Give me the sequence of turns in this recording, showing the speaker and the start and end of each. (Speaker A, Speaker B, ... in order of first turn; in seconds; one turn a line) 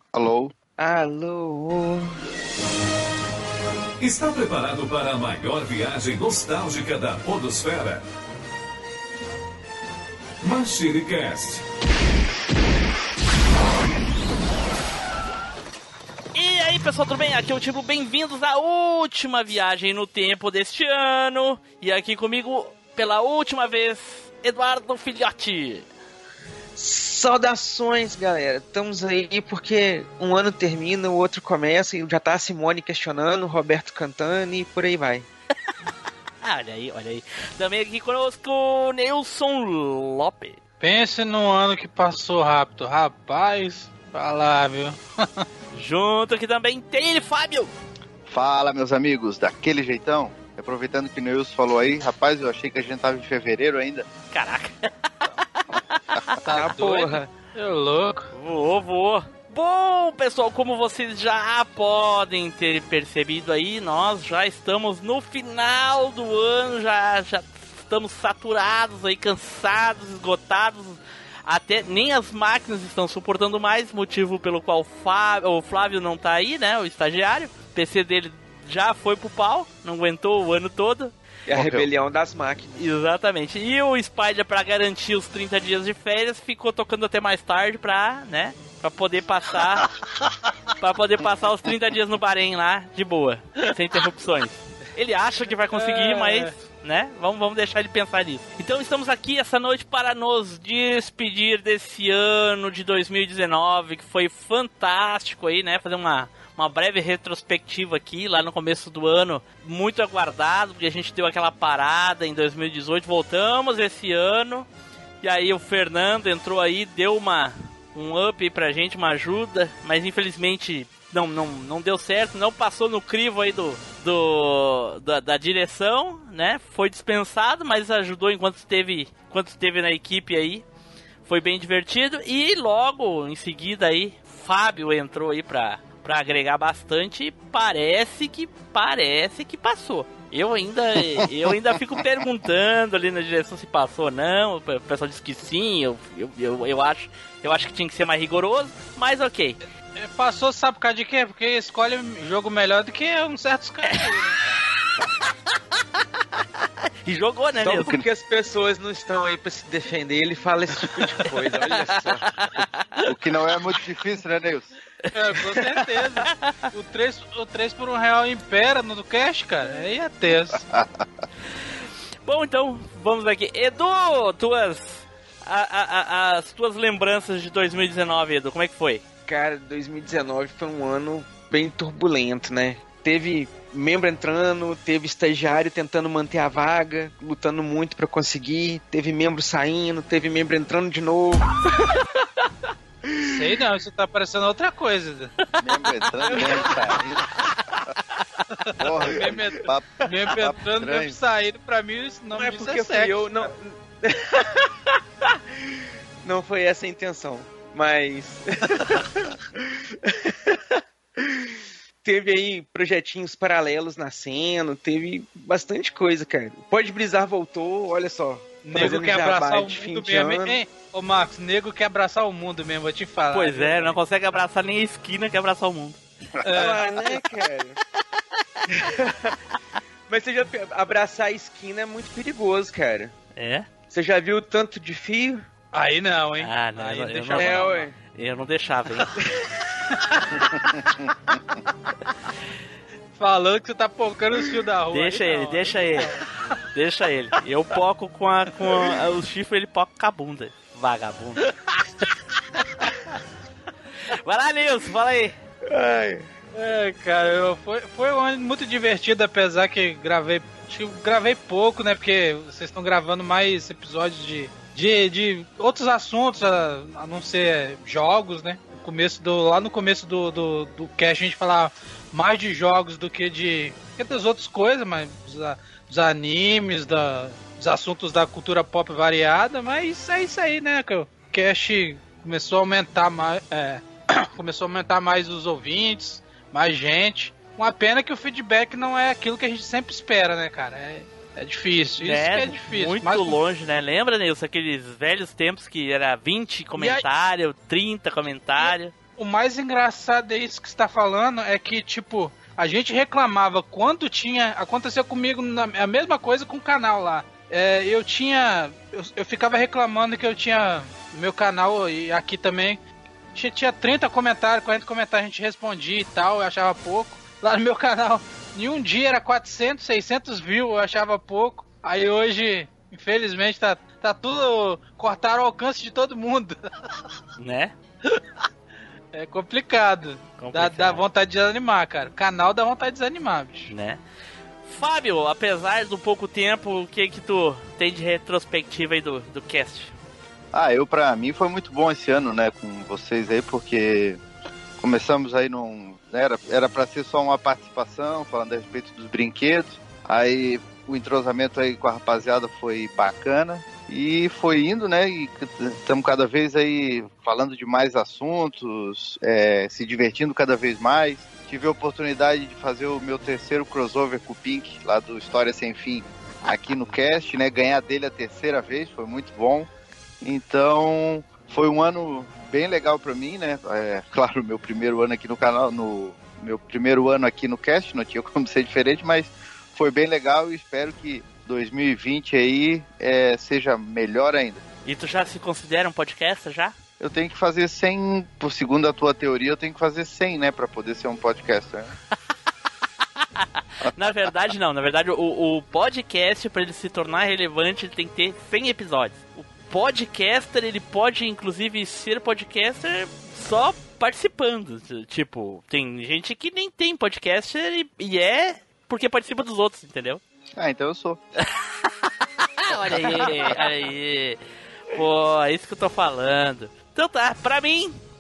Speaker A: 0.1-0.5
Speaker B: 0.8-2.1
Speaker C: 4.0-8.0
Speaker C: 10.4-11.6
Speaker D: 16.3-25.9
Speaker B: 26.8-35.3
Speaker D: 36.4-40.6
Speaker E: 40.8-44.9
Speaker D: 45.7-47.7
Speaker A: 48.2-54.1
Speaker D: 54.3-54.9
Speaker B: 56.5-57.3
Speaker E: 56.5-57.0
Speaker E: 57.5-58.3
Speaker D: 58.3-81.1
Speaker B: 81.5-82.8
Speaker A: 81.5-81.9
Speaker D: 82.8-89.9
Speaker D: 90.8-114.7
Speaker E: 95.7-96.4
Speaker D: 115.2-130.6
Speaker D: 131.2-149.6
Speaker E: 150.2-154.3
Speaker D: 157.1-157.9
Speaker B: 157.6-162.2
Speaker A: 157.7-158.0
Speaker A: 163.0-164.7
Speaker E: 165.2-170.5
Speaker A: 170.5-171.0
Speaker D: 172.2-179.0
Speaker B: 179.2-191.5
Speaker E: 193.3-195.3
Speaker A: 195.6-197.2
Speaker B: 196.2-196.8
Speaker A: 198.8-201.2
Speaker E: 200.1-203.1
Speaker B: 202.3-204.7
Speaker B: 206.2-209.4
Speaker B: 210.0-211.3
Speaker B: 212.0-220.6
Speaker E: 218.7-223.9
Speaker D: 223.3-226.0
Speaker E: 226.4-226.8
Speaker B: 226.5-227.8
Speaker B: 228.8-229.3
Speaker B: 230.1-233.1
Speaker D: 233.3-233.7
Speaker B: 233.9-235.4
Speaker E: 235.7-237.7
Speaker D: 236.4-239.1
Speaker B: 237.3-237.9
Speaker E: 243.2-246.0
Speaker D: 244.9-246.1
Speaker D: 246.7-251.5
Speaker D: 254.2-255.4
Speaker B: 255.8-256.2
Speaker E: 256.6-283.8
Speaker E: 284.4-293.3
Speaker D: 292.0-298.9
Speaker E: 299.2-312.8
Speaker E: 313.4-326.6
Speaker D: 327.4-327.8
Speaker E: 329.1-333.6
Speaker D: 330.4-331.0
Speaker D: 333.7-334.0
Speaker D: 334.6-339.9
Speaker A: 340.5-344.2
Speaker A: 344.8-369.7
Speaker A: 370.2-384.6
Speaker D: 384.8-386.8
Speaker A: 387.0-391.9
Speaker D: 393.9-410.2
Speaker A: 410.6-411.2
Speaker D: 412.6-414.4
Speaker A: 412.8-413.6
Speaker D: 414.9-418.0